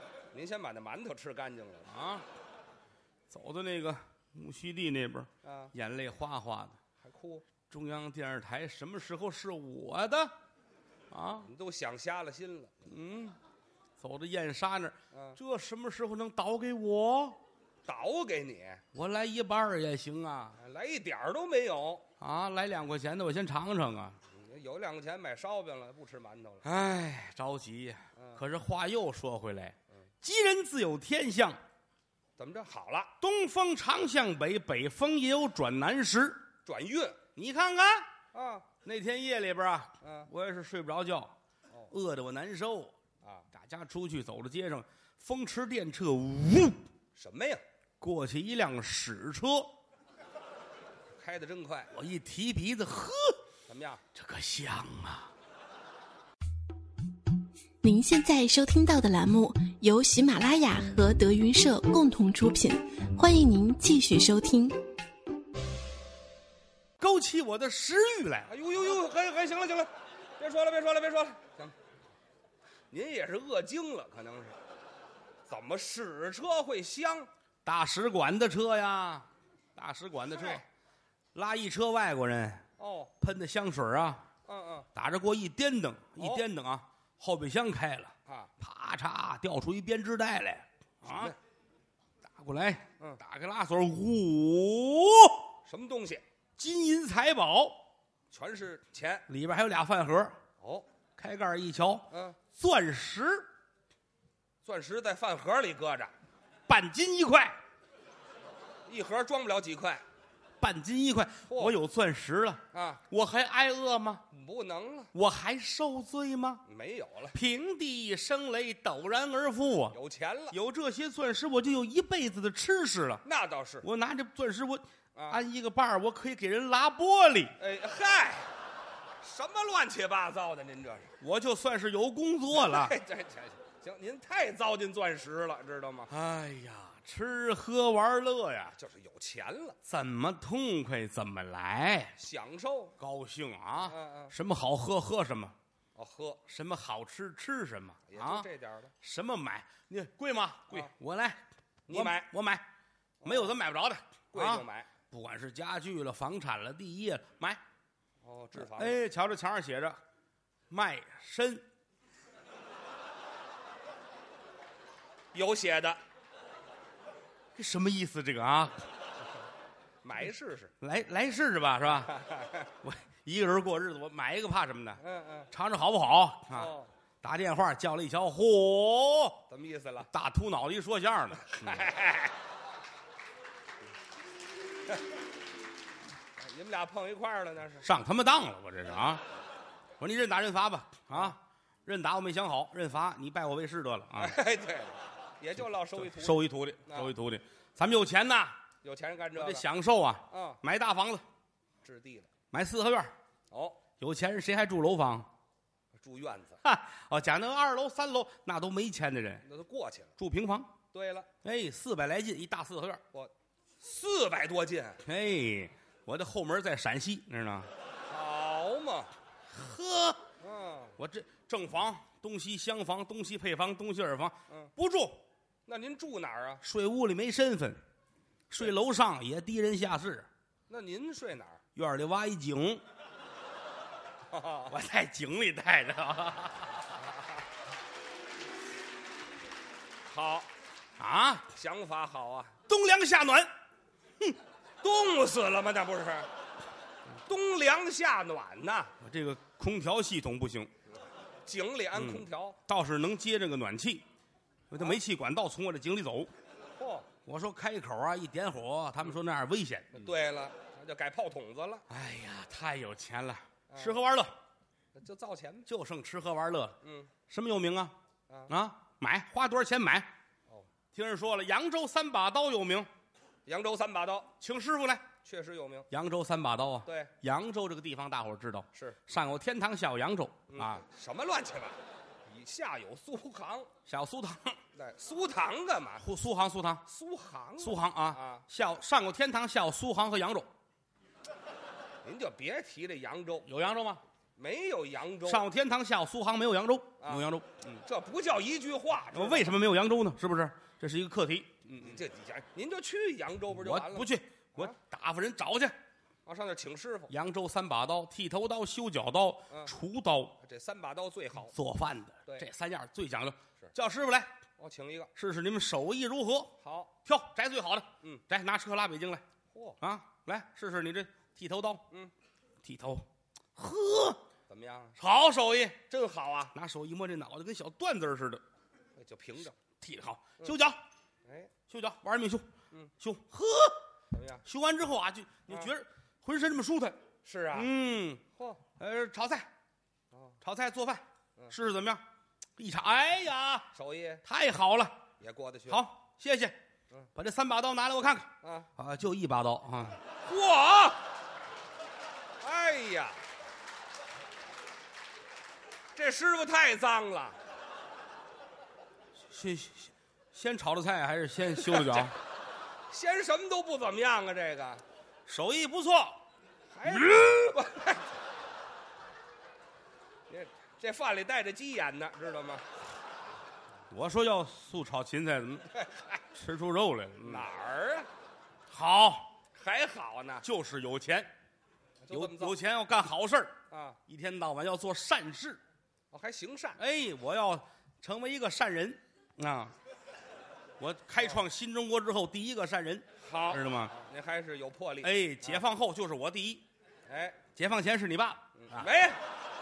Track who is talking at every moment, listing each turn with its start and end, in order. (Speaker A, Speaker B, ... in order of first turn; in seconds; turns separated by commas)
Speaker A: 0.3-1.9, Speaker B: 1.9-2.3, Speaker B: 3.3-6.8, Speaker A: 5.4-5.7, Speaker A: 7.0-7.4, Speaker B: 7.7-10.3, Speaker B: 11.1-11.5, Speaker A: 11.4-13.3, Speaker B: 12.9-13.3, Speaker B: 14.0-17.4, Speaker A: 15.1-15.4, Speaker A: 17.9-18.8, Speaker B: 18.9-20.6, Speaker A: 20.6-22.0, Speaker B: 22.2-24.2, Speaker A: 24.3-26.6, Speaker B: 26.6-31.6, Speaker A: 28.1-28.4, Speaker A: 32.4-33.1, Speaker B: 33.2-36.4, Speaker A: 36.6-37.2, Speaker B: 37.4-38.1, Speaker A: 38.3-38.7, Speaker B: 38.8-41.3, Speaker A: 40.0-40.3, Speaker B: 41.9-42.9, Speaker A: 43.2-43.5, Speaker B: 43.5-46.8, Speaker A: 47.1-47.6, Speaker B: 48.0-49.7, Speaker A: 51.2-51.9, Speaker B: 51.9-53.4, Speaker A: 53.7-54.0, Speaker B: 54.1-55.3, Speaker C: 57.8-64.8, Speaker B: 67.0-69.0, Speaker A: 68.5-71.7, Speaker A: 72.9-74.6, Speaker A: 75.5-77.3, Speaker B: 77.6-80.6, Speaker A: 80.3-80.6, Speaker B: 81.3-82.6, Speaker A: 82.8-83.1, Speaker B: 83.2-84.2, Speaker A: 84.5-84.9, Speaker B: 84.9-91.3, Speaker A: 86.2-86.4, Speaker A: 91.0-91.3, Speaker B: 92.2-95.5, Speaker A: 95.7-96.2, Speaker B: 96.6-97.8, Speaker A: 98.3-99.2, Speaker B: 99.3-100.4, Speaker A: 100.6-100.8, Speaker B: 101.2-103.5, Speaker A: 102.1-102.4, Speaker A: 104.6-106.1, Speaker B: 106.7-107.6, Speaker A: 108.9-110.0, Speaker B: 110.6-114.2, Speaker A: 111.5-111.8, Speaker A: 112.7-113.0, Speaker A: 114.3-115.1, Speaker B: 115.1-116.6, Speaker A: 116.7-117.3, Speaker B: 117.3-120.0, Speaker A: 119.9-120.5, Speaker B: 120.5-123.2, Speaker A: 123.2-123.8, Speaker B: 123.8-127.5, Speaker A: 125.1-125.4, Speaker A: 127.6-128.5, Speaker A: 129.2-131.2, Speaker B: 131.2-132.9, Speaker A: 132.5-136.1, Speaker B: 136.1-138.8, Speaker A: 138.7-139.8, Speaker B: 139.8-142.2, Speaker A: 142.2-142.9, Speaker B: 143.0-145.6, Speaker A: 143.8-144.3, Speaker A: 145.9-146.4, Speaker B: 146.5-148.5, Speaker A: 148.1-148.9, Speaker B: 149.0-152.7, Speaker A: 151.9-152.3, Speaker A: 153.2-153.6, Speaker B: 153.2-157.6, Speaker A: 154.3-154.9, Speaker A: 158.2-159.0, Speaker B: 158.5-160.0, Speaker B: 160.7-161.6, Speaker A: 165.3-166.0, Speaker B: 167.5-168.9, Speaker A: 170.0-170.7, Speaker B: 170.8-172.1, Speaker A: 171.9-172.7, Speaker B: 172.8-179.4, Speaker A: 175.0-175.5, Speaker A: 176.5-176.9, Speaker A: 179.5-180.1, Speaker B: 180.1-181.9, Speaker A: 181.4-182.3, Speaker A: 186.4-187.8, Speaker B: 187.8-189.2, Speaker B: 190.0-194.4, Speaker A: 194.2-197.1, Speaker B: 195.6-198.6, Speaker A: 198.8-199.6, Speaker B: 199.3-201.2, Speaker A: 200.3-200.6, Speaker A: 201.8-202.3, Speaker B: 202.5-203.1, Speaker A: 203.5-203.8, Speaker B: 204.0-205.3, Speaker A: 205.9-206.6, Speaker B: 206.6-209.4, Speaker A: 209.4-210.1, Speaker B: 210.2-210.7, Speaker A: 210.9-211.3, Speaker B: 211.4-213.0, Speaker A: 213.1-215.0, Speaker B: 215.0-217.7, Speaker A: 218.1-219.1, Speaker B: 219.5-220.2, Speaker A: 220.4-220.9, Speaker B: 221.0-225.2, Speaker A: 225.7-226.6, Speaker B: 226.6-227.8, Speaker B: 228.5-230.3, Speaker A: 230.7-231.6, Speaker B: 231.7-232.8, Speaker A: 234.3-234.8, Speaker B: 234.7-236.8, Speaker A: 240.1-240.5, Speaker B: 241.0-241.5, Speaker A: 241.5-242.5, Speaker B: 242.7-243.5, Speaker A: 244.8-246.3, Speaker A: 247.2-248.9, Speaker B: 249.0-250.7, Speaker A: 251.4-252.6, Speaker B: 251.9-254.0, Speaker B: 254.7-256.3, Speaker A: 256.8-257.1, Speaker B: 257.2-260.1, Speaker A: 259.9-261.9, Speaker B: 261.9-264.3, Speaker A: 263.7-264.0, Speaker A: 264.9-265.7, Speaker B: 265.6-267.9, Speaker A: 266.8-267.1, Speaker B: 268.5-270.1, Speaker B: 270.9-272.9, Speaker A: 273.4-274.3, Speaker B: 274.4-275.1, Speaker A: 275.2-275.9, Speaker B: 275.9-280.8, Speaker A: 276.9-277.1, Speaker A: 280.5-283.7, Speaker B: 283.9-284.6, Speaker A: 284.7-286.0, Speaker B: 286.0-286.8, Speaker A: 286.9-288.4, Speaker B: 287.6-290.5, Speaker A: 292.0-293.5, Speaker B: 293.4-294.0, Speaker A: 294.4-295.4, Speaker B: 295.2-297.8, Speaker A: 297.8-299.5, Speaker B: 299.1-302.0, Speaker A: 301.8-304.8, Speaker B: 303.5-305.8, Speaker A: 306.2-307.1, Speaker B: 307.1-310.4, Speaker A: 310.4-311.5, Speaker B: 311.5-314.3, Speaker A: 314.6-315.1, Speaker B: 315.1-316.5, Speaker A: 316.6-316.9, Speaker B: 317.0-319.2, Speaker A: 319.5-319.8, Speaker B: 319.8-321.8, Speaker B: 322.6-324.2, Speaker A: 324.5-324.9, Speaker B: 325.0-325.8, Speaker A: 325.9-326.5, Speaker B: 326.5-328.4, Speaker A: 328.9-329.6, Speaker B: 329.8-330.8, Speaker A: 331.2-331.5, Speaker B: 331.7-332.5, Speaker B: 333.0-333.8, Speaker A: 334.1-334.4, Speaker B: 334.4-337.0, Speaker A: 337.2-337.7, Speaker B: 337.5-338.2, Speaker A: 338.3-338.6, Speaker B: 338.8-339.5, Speaker A: 340.1-340.4, Speaker B: 340.4-342.0, Speaker B: 342.6-343.7, Speaker A: 343.7-344.2, Speaker B: 344.2-345.0, Speaker A: 345.2-345.8, Speaker B: 345.7-346.6, Speaker B: 347.1-350.0, Speaker A: 348.4-348.7, Speaker A: 350.2-351.0, Speaker A: 352.4-353.2, Speaker A: 355.9-357.4, Speaker B: 359.3-362.1, Speaker A: 361.6-362.1, Speaker A: 362.9-364.8, Speaker B: 365.2-366.2, Speaker A: 366.7-368.1, Speaker B: 366.9-367.3, Speaker A: 370.3-372.6, Speaker B: 373.9-375.8, Speaker A: 375.7-376.2, Speaker B: 376.3-377.5, Speaker A: 377.2-378.1, Speaker B: 378.7-379.3, Speaker A: 379.5-380.4, Speaker B: 380.4-381.3, Speaker A: 382.0-382.6, Speaker B: 382.1-383.6, Speaker A: 383.7-384.0, Speaker B: 384.1-385.6, Speaker A: 386.1-386.8, Speaker B: 386.8-389.7, Speaker B: 390.8-393.9, Speaker A: 393.2-395.6, Speaker B: 395.0-396.6, Speaker A: 397.1-397.4, Speaker B: 397.5-398.9, Speaker A: 398.6-399.2